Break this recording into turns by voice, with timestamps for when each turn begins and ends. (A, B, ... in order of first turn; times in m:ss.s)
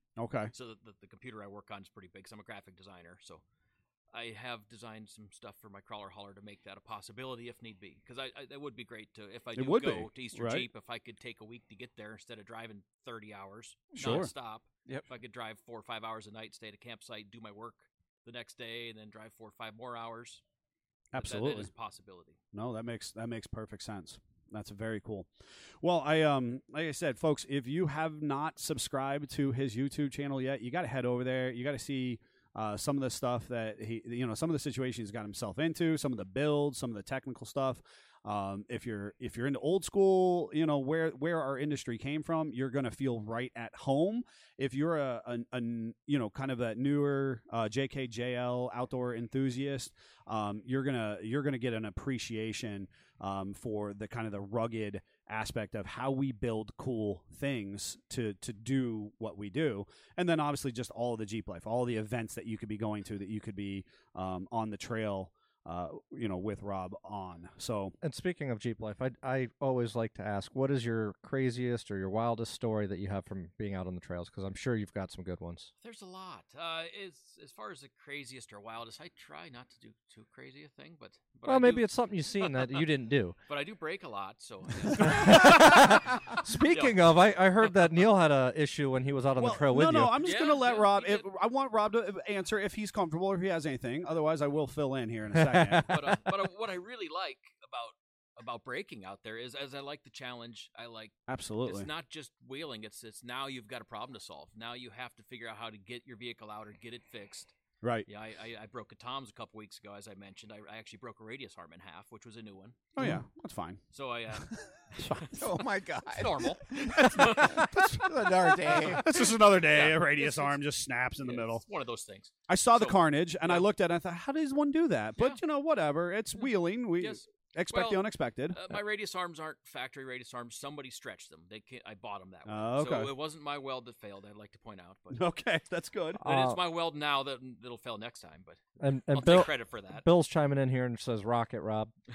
0:00.2-0:00.5 A
0:00.5-0:03.4 B
0:04.1-0:20.4 B
0:09.6-0:10.7 A
0:14.0-0:14.3 A
0:21.1-0:21.7 A
0:21.2-0:22.4 B
0:22.5-0:25.3 A
0:25.8-1:08.0 A
1:08.0-1:15.7 C
1:15.8-1:21.9 B
1:21.5-1:23.4 C
1:22.4-1:22.8 B
1:23.5-1:27.7 B
1:24.9-1:30.2 C
1:29.4-1:36.0 A
1:30.2-1:31.3 B
1:35.4-1:35.8 C
1:35.9-1:47.5 B
1:41.3-1:41.9 A
1:47.8-1:48.1 A
1:48.1-1:53.0 B
1:53.0-1:53.8 A
1:53.9-1:55.5 B
1:55.3-1:59.1 D
1:56.1-1:58.0 B
1:58.8-2:01.6 A
1:59.6-2:00.6 B
2:01.2-2:03.7 B
2:02.5-2:08.7 A
2:07.0-2:15.2 B
2:12.5-2:13.1 A
2:15.1-2:16.2 A
2:16.2-2:16.6 C
2:16.2-2:20.1 B
2:18.8-2:21.9 C